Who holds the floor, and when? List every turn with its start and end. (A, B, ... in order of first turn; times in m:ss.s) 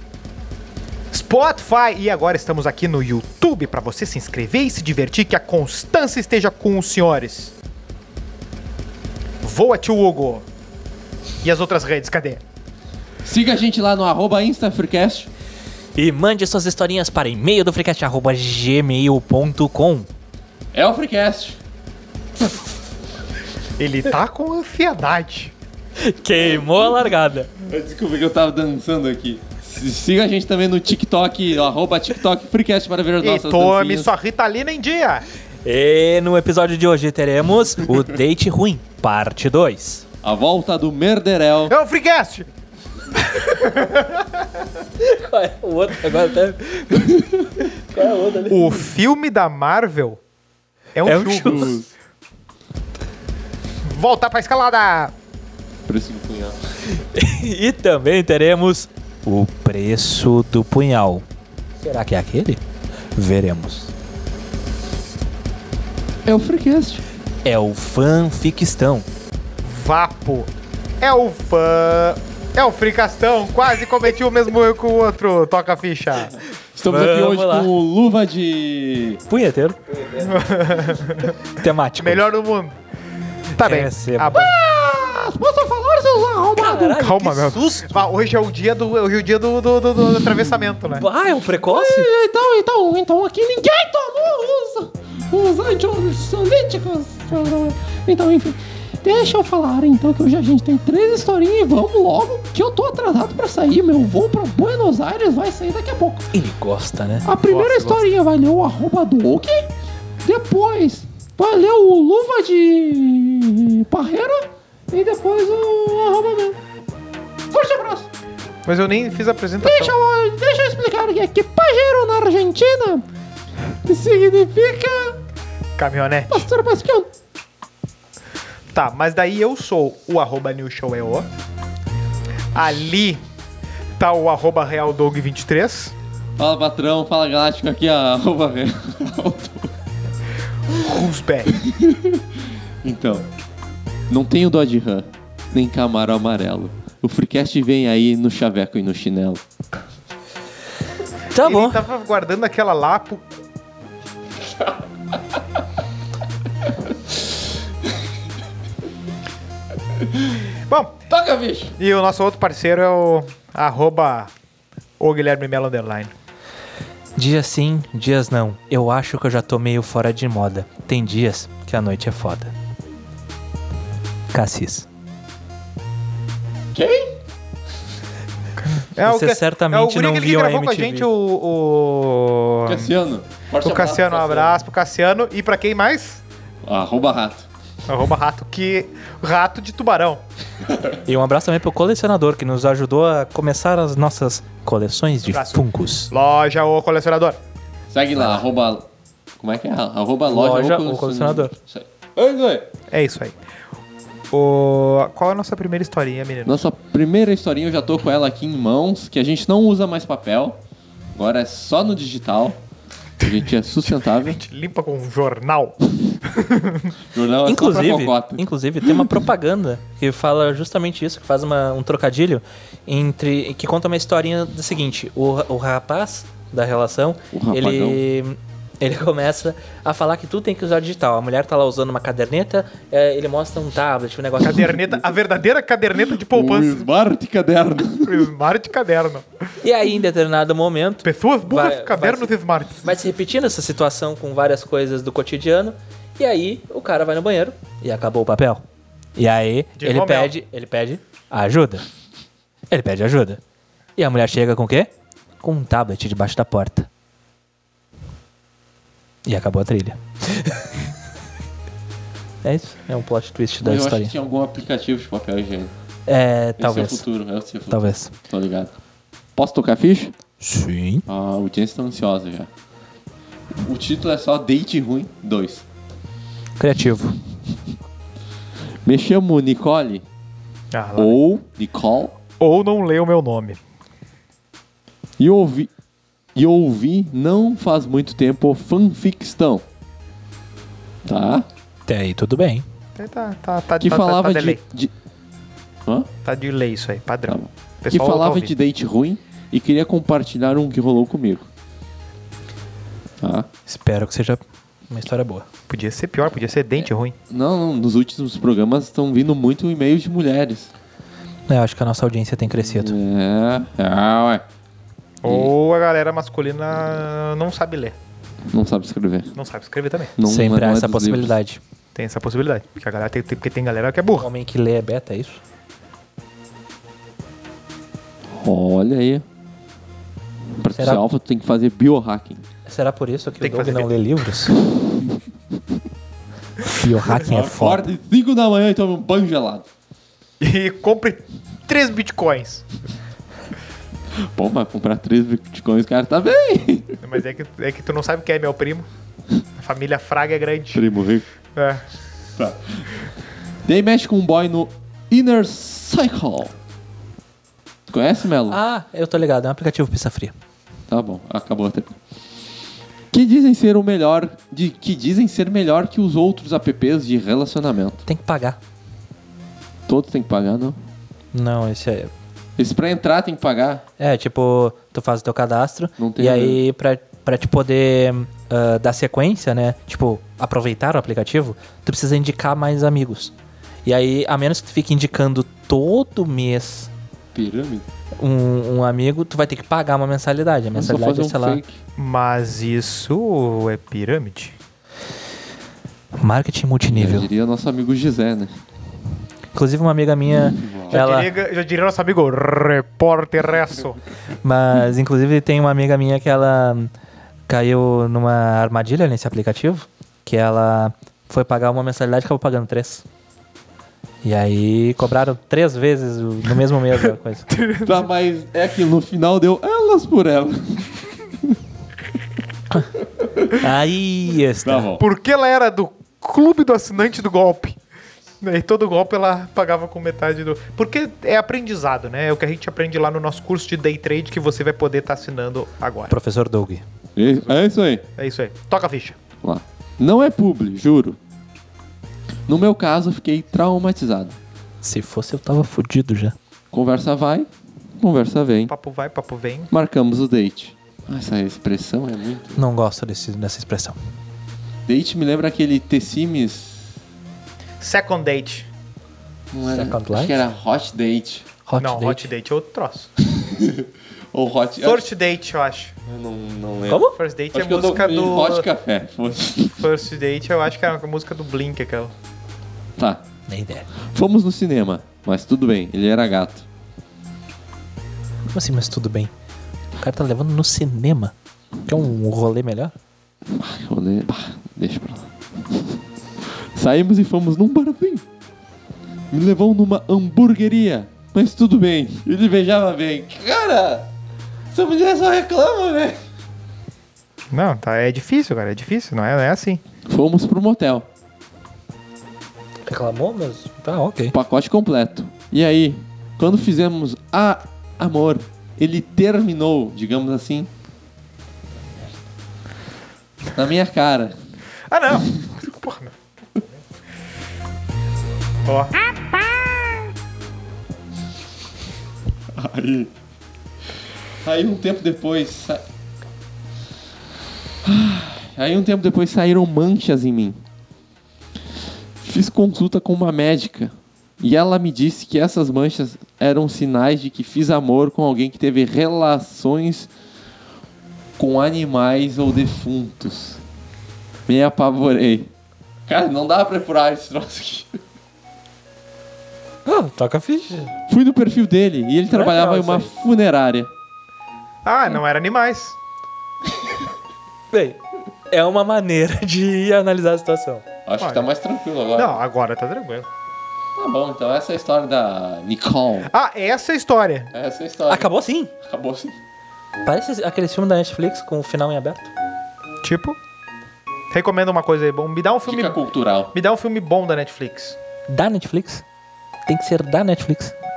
0:01.1-0:07.5 A
0:09.4-0:10.4 A
0:11.4-0:12.4 A
0:13.2-0:15.3 B
0:16.0-0:20.1 C
0:20.7-0:21.6 B
0:23.8-0:25.5 A
0:26.0-0:27.5 C
0:27.6-0:34.1 B
0:33.2-0:35.2 A
0:35.6-0:40.0 C
0:40.2-0:41.7 B
0:41.7-0:42.5 A
0:43.2-0:44.6 A
0:45.0-0:48.8 C
0:48.5-0:50.2 A
0:50.9-0:51.8 A
0:51.0-0:51.8 C
0:51.4-0:51.8 B
0:53.9-0:55.1 A
0:55.9-0:56.6 B
0:56.9-1:01.2 C
1:01.8-1:02.6 C
1:03.1-1:03.9 C
1:06.2-1:07.0 B
1:07.4-1:09.1 C
1:09.6-1:16.3 A
1:16.4-1:19.2 B
1:16.8-1:17.7 C
1:19.3-1:19.9 C
1:20.1-1:21.4 A
1:21.4-1:22.2 C
1:22.0-1:22.8 A
1:23.6-1:24.5 A
1:23.6-1:24.4 C
1:24.3-1:27.0 B
1:26.6-1:28.0 C
1:26.8-1:31.1 A
1:30.9-1:32.1 C
1:31.7-1:46.3 B
1:46.3-1:47.3 C
1:47.2-1:49.7 B
1:47.4-1:48.0 A
1:50.2-1:56.6 B
1:57.5-1:58.1 B
1:58.6-2:00.0 A
1:59.6-2:03.0 B
2:03.8-2:05.2 B
2:05.8-2:06.5 A
2:06.3-2:07.1 B
2:08.7-2:11.3 A
2:12.5-2:13.2 A
2:14.0-2:16.0 A
2:16.4-2:19.7 B
2:20.7-2:21.6 A
2:21.6-2:22.2 B
2:22.8-2:23.3 B
2:24.1-2:29.4 B
2:31.3-2:31.8 C
2:31.4-2:33.3 A
2:40.7-2:40.9 A
2:41.1-2:41.7 B
2:41.8-2:44.3 A
2:45.0-2:46.1 A
2:47.2-2:52.5 C
2:54.3-2:54.9 C
2:56.7-2:57.1 B
2:58.6-3:02.9 A
2:59.0-3:01.1 C
3:02.6-3:04.5 B
3:03.6-3:06.2 A
3:06.6-3:07.5 B
3:07.9-3:10.2 A
3:11.0-3:16.1 C
3:15.2-3:17.4 A
3:17.9-3:18.8 B
3:19.4-3:22.7 B
3:20.3-3:21.5 C
3:22.9-3:23.4 A
3:24.3-3:26.7 A
3:26.4-3:30.6 B
3:31.1-3:32.6 B
3:33.2-3:34.4 B
3:33.2-3:36.9 A
3:37.1-3:39.1 B
3:37.4-3:54.8 C
3:47.3-3:48.0 B
3:54.4-3:56.9 A
3:56.3-3:58.3 B
3:58.0-3:59.2 A
3:59.6-4:02.3 C
4:01.0-4:02.9 A
4:02.8-4:08.6 C
4:09.2-4:11.8 C
4:09.8-4:10.3 A
4:12.7-4:13.4 C
4:14.0-4:14.9 C
4:15.4-4:16.9 C
4:19.2-4:20.7 C
4:22.4-4:24.1 C
4:23.6-4:25.7 B
4:26.1-4:27.0 C
4:26.6-4:28.7 B
4:27.7-4:28.1 C
4:29.4-4:30.1 B
4:30.4-4:31.0 C
4:31.1-4:32.5 B
4:33.6-4:35.6 B
4:36.6-4:37.2 C
4:38.8-4:40.0 B
4:40.7-4:41.2 A
4:41.0-4:42.1 B
4:42.4-4:43.6 A
4:45.2-4:45.7 B
4:46.3-4:49.6 B
4:51.0-4:51.4 B
4:51.9-4:52.6 C
4:53.0-4:54.6 A
4:53.8-4:54.9 B
4:56.2-4:58.5 A
4:57.3-5:01.5 B
5:03.2-5:03.5 B
5:03.7-5:05.4 C
5:05.7-5:07.1 A
5:06.8-5:10.7 B
5:11.5-5:12.9 C
5:12.8-5:14.4 B
5:15.2-5:18.0 A
5:15.2-5:15.5 B
5:18.5-5:19.3 B
5:19.4-5:20.1 A
5:20.2-5:21.3 B
5:20.2-5:21.6 C
5:21.9-5:24.3 A
5:24.2-5:25.4 C
5:28.3-5:29.2 B
5:30.6-5:32.4 B
5:30.7-5:31.0 C
5:32.7-5:34.6 C
5:33.4-5:33.9 A
5:36.7-5:37.8 C
5:37.2-5:39.6 B
5:40.4-5:42.6 A
5:44.2-5:47.0 B
5:47.0-5:48.9 A
5:49.6-5:50.8 A
5:50.7-5:51.2 B
5:51.5-5:51.8 A
5:52.4-5:53.1 B
5:53.6-5:56.5 B
5:57.9-5:58.6 B
5:58.5-6:00.3 C
6:00.9-6:02.0 B
6:03.1-6:08.0 B
6:08.1-6:08.6 C
6:09.9-6:10.8 B
6:11.3-6:12.1 C
6:12.6-6:13.8 B
6:14.0-6:23.3 C
6:16.0-6:16.6 B
6:23.8-6:26.9 C
6:27.3-6:27.8 B
6:28.2-6:31.6 C
6:30.7-6:31.8 B
6:32.0-6:34.6 A
6:36.2-6:37.3 C
6:36.9-6:38.6 B
6:39.5-6:41.3 C
6:40.6-6:41.0 B
6:40.9-6:44.0 A
6:44.4-6:46.9 C
6:47.5-6:53.0 C
6:54.2-6:57.5 C
6:57.5-6:58.1 A
6:57.8-7:01.5 B
7:03.2-7:03.6 B
7:03.5-7:04.9 C
7:04.6-7:05.0 B
7:05.0-7:07.8 A
7:08.4-7:16.1 A
7:16.1-7:16.8 C
7:17.2-7:18.0 B
7:18.2-7:19.2 A
7:19.4-7:21.2 B
7:22.5-7:24.4 B
7:24.8-7:26.3 C
7:26.7-7:27.5 B
7:28.0-7:28.7 B
7:28.7-7:29.7 A
7:29.7-7:32.6 B
7:32.6-7:34.0 C
7:34.8-7:36.9 B
7:37.8-7:38.7 A
7:39.5-7:41.4 B
7:39.7-7:40.4 C
7:41.6-7:42.3 C
7:41.8-7:43.1 A
7:43.3-7:45.1 B
7:44.8-7:45.9 A
7:46.1-7:49.9 B
7:46.9-7:47.2 C
7:47.1-7:48.7 A
7:49.8-7:52.1 A
7:53.0-7:53.2 B
7:53.5-7:53.9 C
7:54.0-7:56.6 B
7:58.5-7:59.3 C
8:00.0-8:01.3 C
8:01.8-8:02.9 C
8:03.5-8:05.9 B
8:06.4-8:08.2 B
8:09.3-8:14.1 B
8:14.7-8:16.2 B
8:17.5-8:19.8 A
8:20.0-8:21.1 B
8:22.9-8:24.3 C
8:24.3-8:30.7 B
8:33.5-8:34.4 B
8:34.9-8:36.8 A
8:38.6-8:39.0 A
8:42.5-8:43.1 B
8:44.4-8:45.8 B
8:47.8-8:50.6 B
8:52.2-9:00.1 B
9:01.4-9:03.6 B
9:04.5-9:05.5 B
9:06.1-9:08.0 B
9:09.8-9:10.9 C
9:11.1-9:13.9 B
9:12.3-9:13.1 C
9:14.8-9:16.0 A
9:17.7-9:18.0 C
9:18.5-9:20.8 C
9:21.0-9:22.4 B
9:21.2-9:21.5 A
9:22.1-9:23.3 A
9:24.0-9:26.3 B
9:26.3-9:27.5 A
9:27.5-9:29.4 B
9:28.1-9:28.7 C
9:30.0-9:32.3 C
9:33.0-9:33.4 A
9:34.3-9:36.0 A
9:35.6-9:36.5 B
9:36.5-9:38.0 A
9:38.3-9:39.0 C
9:39.7-9:40.7 C